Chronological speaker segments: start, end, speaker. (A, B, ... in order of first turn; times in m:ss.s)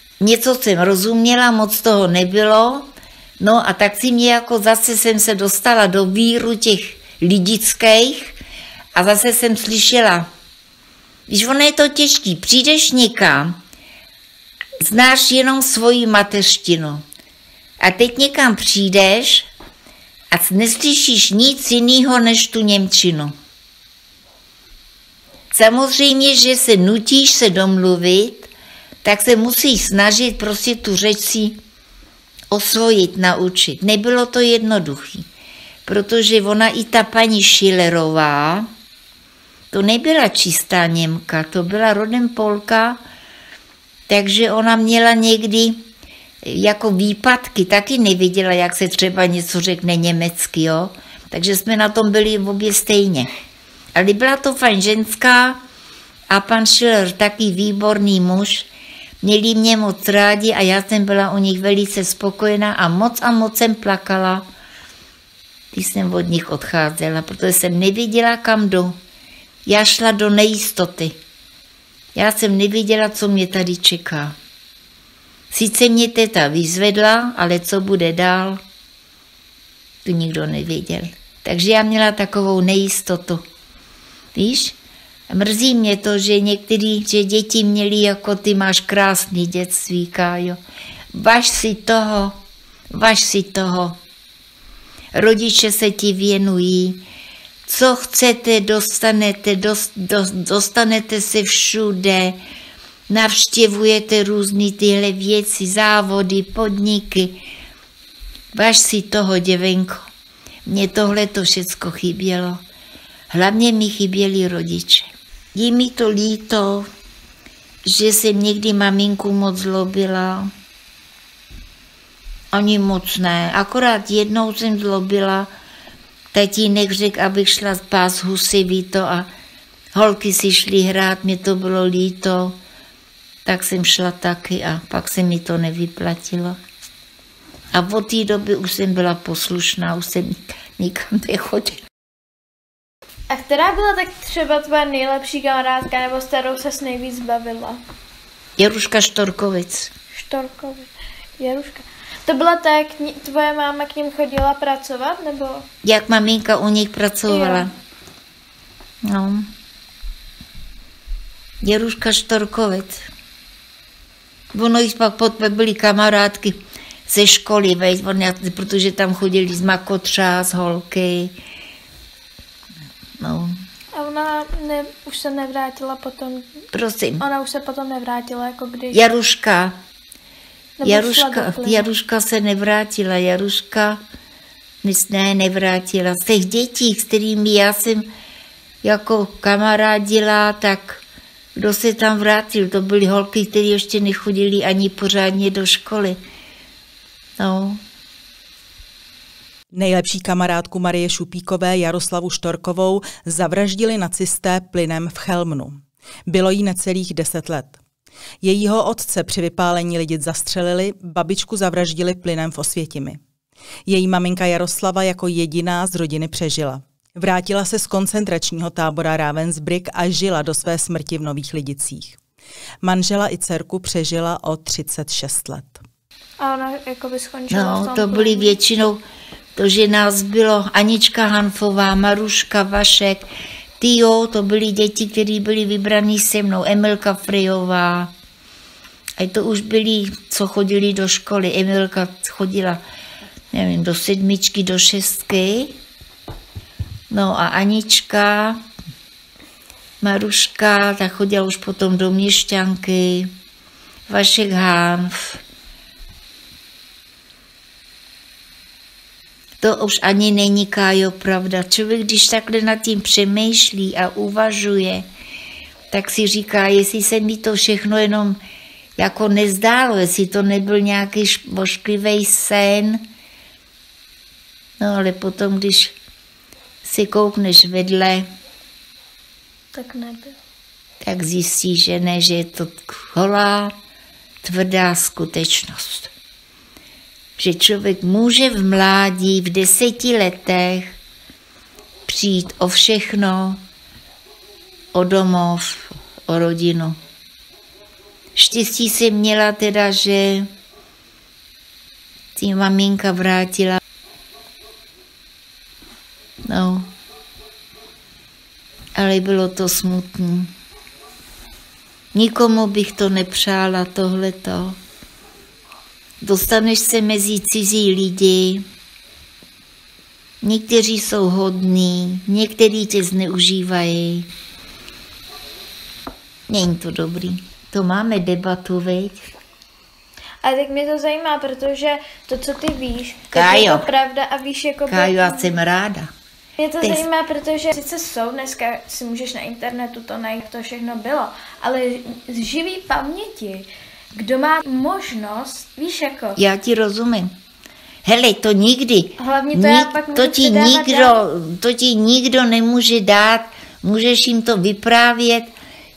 0:00.2-0:02.9 A
0:03.4-0:08.4 A
0:08.9-0:10.3 A
0:11.3-0:13.6 A
0:14.8-0:17.0 A
0:17.8-0:19.5 A
0:20.3-0:23.3 A
0:25.5-0:28.5 A
0:29.0-0:31.6 A
0:32.5-0:35.2 A
0:35.8-0:38.7 A
0:39.7-0:43.0 A
0:44.1-0:45.8 A
0:46.4-0:53.3 A
0:53.9-0:55.6 A
0:56.3-0:58.7 A
0:59.2-1:04.5 A
1:05.7-1:09.0 A
1:09.6-1:11.2 A
1:12.1-1:14.4 A
1:15.5-1:18.6 A
1:20.0-1:23.4 A
1:24.3-1:24.8 A
1:25.3-1:30.6 A
1:31.1-1:32.3 A
1:32.9-1:34.0 A
1:35.1-1:37.0 A
1:37.6-1:42.4 A
1:43.1-1:47.4 A
1:48.5-1:50.0 A
1:50.6-1:52.6 A
1:53.3-1:56.9 A
1:57.8-2:00.5 A
2:02.5-2:05.5 A
2:06.3-2:09.3 A
2:09.9-2:12.6 A
2:13.4-2:16.6 A
2:17.7-2:21.8 A
2:23.3-2:27.8 B
2:28.6-2:29.9 A
2:30.1-2:35.6 B
2:35.8-2:37.7 A
2:37.3-2:37.7 B
2:39.0-2:39.5 A
2:41.6-2:43.1 A
2:44.5-2:51.3 A
2:53.2-2:53.6 A
2:53.9-2:56.6 B
2:56.7-2:57.2 A
2:57.2-2:59.0 B
2:58.9-2:59.7 A
3:00.8-3:01.8 B
3:00.8-3:04.0 A
3:04.8-3:08.1 A
3:08.8-3:11.0 A
3:11.6-3:16.2 A
3:17.4-3:17.8 A
3:19.7-3:27.8 C
3:28.4-3:33.2 C
3:33.8-3:42.2 C
3:42.8-3:45.8 C
3:46.4-3:48.6 B
3:47.5-3:49.0 A
3:49.6-3:53.2 A
3:53.8-3:58.1 A
3:59.2-4:02.8 A
4:03.5-4:05.7 A
4:07.1-4:08.6 A
4:10.0-4:13.3 A
4:14.1-4:15.4 A
4:19.6-4:25.0 A
4:25.9-4:28.4 A
4:29.0-4:33.0 A
4:34.8-4:35.9 A
4:36.8-4:38.3 A
4:39.7-4:40.3 B
4:41.0-4:43.7 A
4:44.4-4:46.1 A
4:47.4-4:50.9 A
4:52.1-4:53.6 A
4:54.9-4:57.0 A
4:58.4-5:00.5 A
5:02.4-5:03.8 A
5:06.5-5:06.9 A
5:08.9-5:10.5 A
5:12.1-5:14.8 A
5:16.2-5:18.6 A
5:20.4-5:24.3 A
5:26.5-5:29.2 A
5:30.4-5:35.4 B
5:33.3-5:33.8 A
5:34.9-5:36.1 A
5:36.6-5:46.4 B
5:46.4-5:47.3 A
5:48.0-5:55.5 A
5:49.2-5:51.2 B